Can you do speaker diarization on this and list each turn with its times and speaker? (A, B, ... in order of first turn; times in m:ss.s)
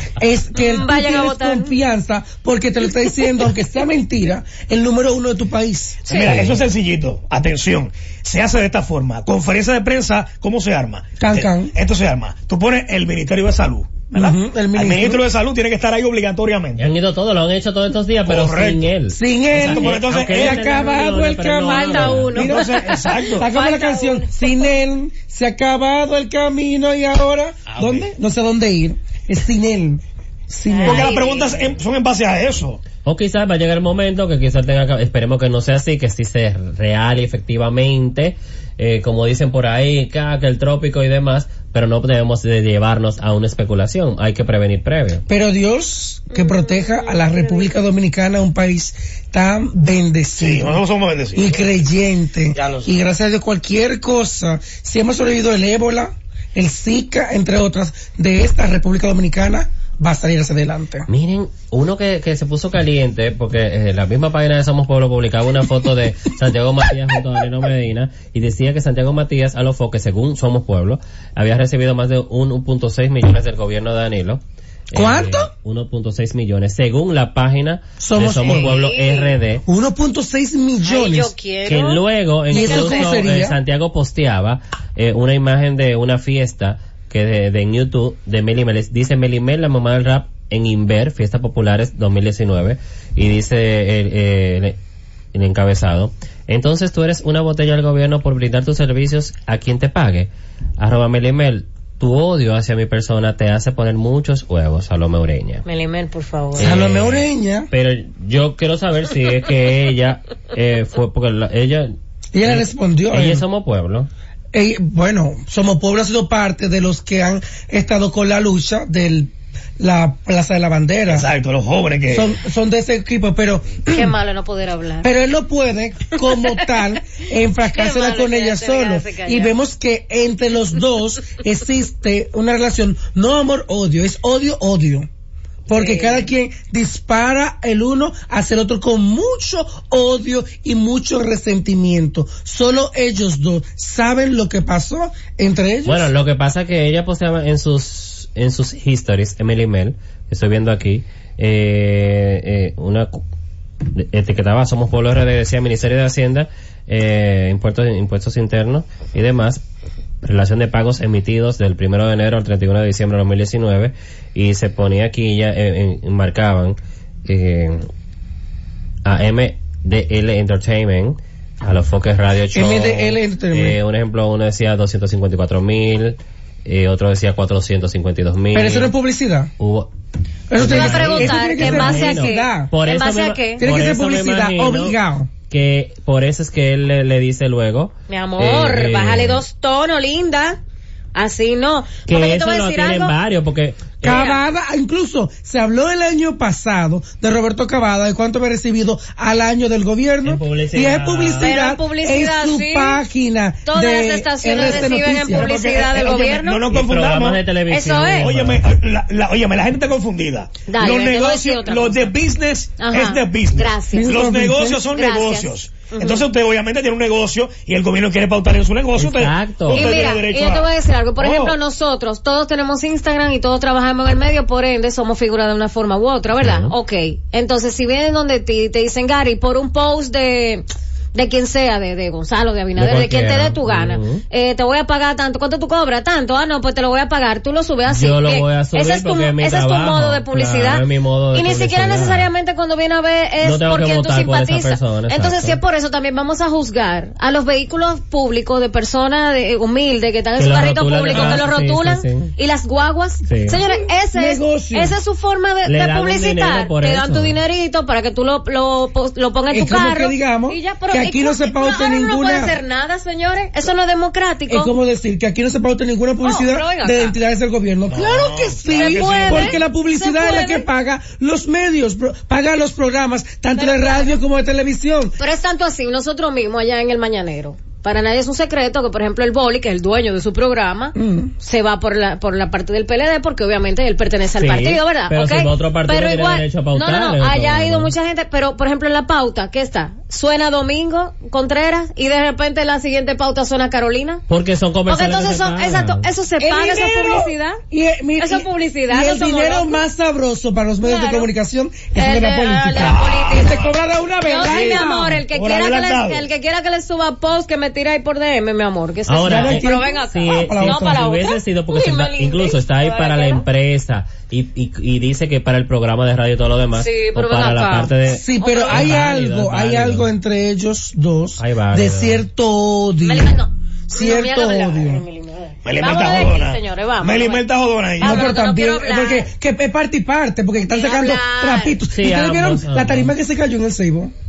0:00.2-0:06.1 A
0:00.5-0:01.8 B
0:06.1-0:06.5 B
0:06.1-0:16.9 C
0:06.2-0:06.5 D
0:11.2-0:11.7 A
0:14.1-0:15.2 A
0:16.8-0:22.4 D
0:18.3-0:18.9 C
0:19.1-0:31.1 A
0:19.5-0:20.8 C
0:21.6-0:24.7 B
0:22.4-0:23.5 C
0:27.7-0:28.1 C
0:30.7-0:31.7 B
0:30.8-0:32.8 C
0:33.0-0:45.2 D
0:45.3-0:50.8 A
0:46.3-0:47.8 B
0:50.4-0:51.7 C
0:51.4-1:01.1 A
0:52.5-0:53.0 C
1:01.1-1:19.6 D
1:14.9-1:15.5 A
1:18.0-1:18.7 A
1:18.4-1:19.4 B
1:19.7-1:21.3 A
1:20.8-1:22.0 B
1:21.7-1:34.8 D
1:22.5-1:23.6 A
1:22.5-1:23.2 B
1:35.3-1:45.6 D
1:45.6-1:46.7 B
1:46.6-1:51.9 D
1:46.6-1:47.7 A
1:52.3-1:53.4 A
1:52.4-1:54.1 D
1:54.5-2:01.3 A
2:01.1-2:02.4 C
2:02.1-2:04.1 A
2:03.8-2:05.1 B
2:05.0-2:15.1 A
2:07.7-2:09.6 B
2:15.7-2:26.1 A
2:15.7-2:16.3 B
2:25.8-2:33.2 D
2:33.9-2:39.6 D
2:40.2-2:47.9 D
2:49.0-2:58.9 D
2:52.5-2:53.8 A
2:58.5-2:59.5 A
2:59.6-2:59.9 D
3:00.5-3:02.7 A
3:00.5-3:05.0 D
3:00.6-3:03.7 B
3:03.6-3:05.3 A
3:05.5-3:09.4 D
3:08.1-3:10.6 B
3:11.2-3:13.1 B
3:12.1-3:14.3 D
3:14.0-3:25.5 A
3:14.0-3:14.4 B
3:20.2-3:21.5 D
3:21.4-3:23.0 B
3:23.7-3:26.6 B
3:24.6-3:27.4 C
3:26.7-3:28.6 D
3:27.7-3:28.3 B
3:28.2-3:41.6 C
3:30.7-3:32.1 B
3:32.8-3:34.1 B
3:33.9-3:34.8 A
3:34.9-3:36.3 B
3:39.0-3:40.0 D
3:39.7-4:00.8 B
3:46.4-3:46.7 D
3:52.8-3:54.2 D
3:57.9-4:02.3 D
4:01.3-4:24.7 B
4:03.4-4:05.6 D
4:10.4-4:12.3 D
4:11.1-4:11.4 A
4:13.3-4:13.6 D
4:13.7-4:15.0 A
4:15.7-4:17.4 D
4:19.5-4:22.6 A
4:24.5-4:35.2 A
4:26.2-4:27.2 B
4:27.9-4:29.6 C
4:28.7-4:30.7 B
4:33.6-4:34.2 B
4:35.2-4:54.2 B
4:41.0-4:41.3 A
4:44.4-4:47.9 D
4:54.3-4:56.0 D
4:54.9-4:57.6 B
4:56.4-5:05.2 A
4:58.2-4:59.8 B
5:00.8-5:01.3 B
5:02.0-5:03.7 B
5:02.8-5:03.4 C
5:04.2-5:13.5 B
5:04.5-5:06.3 C
5:09.1-5:20.1 D
5:09.2-5:11.0 A
5:16.8-5:18.9 B
5:18.0-5:23.4 A
5:21.4-5:22.2 D
5:23.0-5:27.5 B
5:23.9-5:25.0 A
5:25.6-5:28.4 C
5:28.0-5:29.3 B
5:28.0-5:34.1 A
5:30.6-5:31.8 B
5:31.9-5:33.1 D